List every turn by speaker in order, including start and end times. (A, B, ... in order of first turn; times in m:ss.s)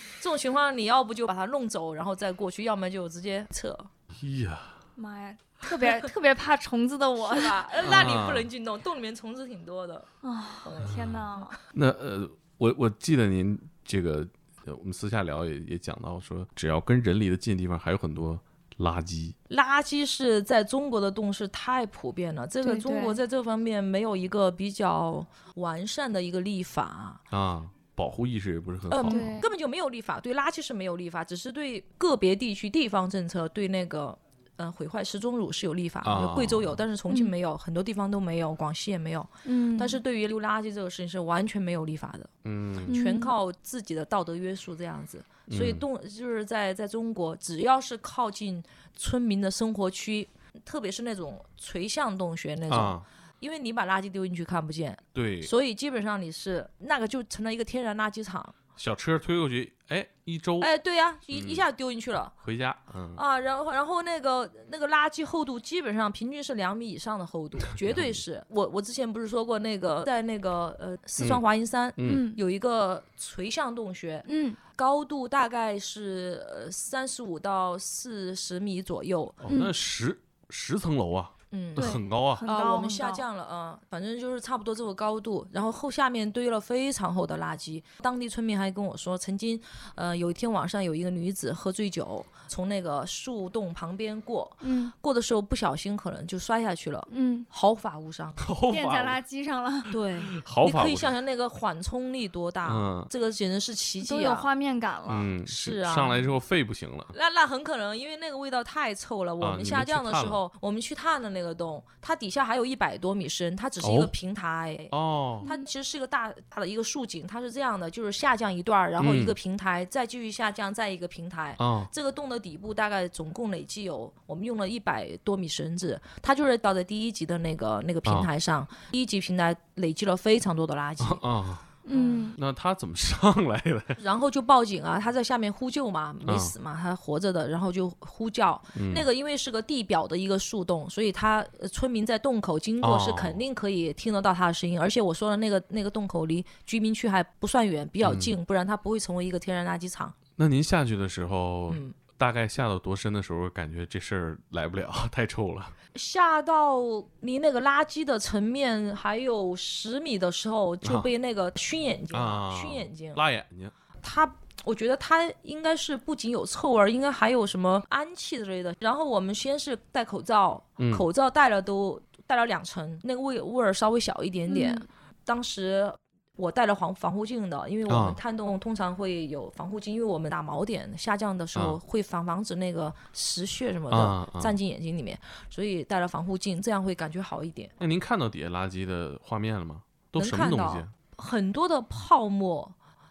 0:00.2-0:03.9 A
0:04.1-0:04.8 B
0:05.0-0:07.7 C
0:07.2-0:10.1 A
0:07.8-0:08.5 B
0:10.2-0:11.5 C
0:10.6-0:11.5 A
0:10.8-0:19.4 B
0:19.5-0:27.2 A
0:22.6-0:23.2 C
0:27.3-0:29.3 B
0:28.9-0:42.3 A
0:29.1-0:29.5 C
0:36.0-0:36.8 B
0:37.1-0:37.3 C
0:39.4-0:40.0 C
0:42.4-0:42.9 B
0:42.9-0:43.3 C
0:42.9-0:58.6 A
0:45.5-0:45.8 B
0:52.7-0:53.1 B
0:55.2-0:55.5 B
0:58.8-1:00.7 B
1:00.6-1:02.3 A
1:01.3-1:01.6 B
1:02.3-1:03.2 B
1:03.2-1:19.4 A
1:07.8-1:08.2 B
1:12.0-1:12.2 B
1:12.0-1:12.4 C
1:14.3-1:14.6 C
1:19.4-1:22.4 B
1:19.5-1:19.7 C
1:21.5-1:38.4 A
1:21.8-1:23.2 C
1:34.6-1:34.9 C
1:37.1-1:37.5 C
1:38.4-1:39.2 B
1:38.7-1:40.0 C
1:39.9-1:44.5 A
1:40.2-1:41.1 B
1:42.6-1:43.1 B
1:44.0-1:45.3 C
1:45.1-1:47.1 B
1:45.4-1:46.3 A
1:47.1-2:11.2 A
1:49.4-1:50.4 B
1:53.8-1:54.1 B
1:54.9-1:55.5 B
1:59.0-1:59.4 B
2:01.6-2:01.9 B
2:08.0-2:08.3 B
2:11.0-2:11.6 B
2:11.8-2:12.4 C
2:11.9-2:12.2 A
2:12.3-2:14.0 B
2:14.0-2:30.2 A
2:16.3-2:16.5 B
2:18.7-2:19.1 B
2:22.8-2:23.4 B
2:28.0-2:28.3 B
2:30.4-2:35.8 B
2:31.7-2:32.0 A
2:35.9-2:43.2 A
2:40.8-2:41.1 B
2:42.1-2:43.7 B
2:44.0-3:07.7 A
2:50.8-2:51.1 B
2:54.5-2:54.8 C
2:57.9-2:58.2 B
3:01.6-3:01.8 B
3:03.9-3:04.6 B
3:07.8-3:10.9 B
3:10.2-3:12.7 A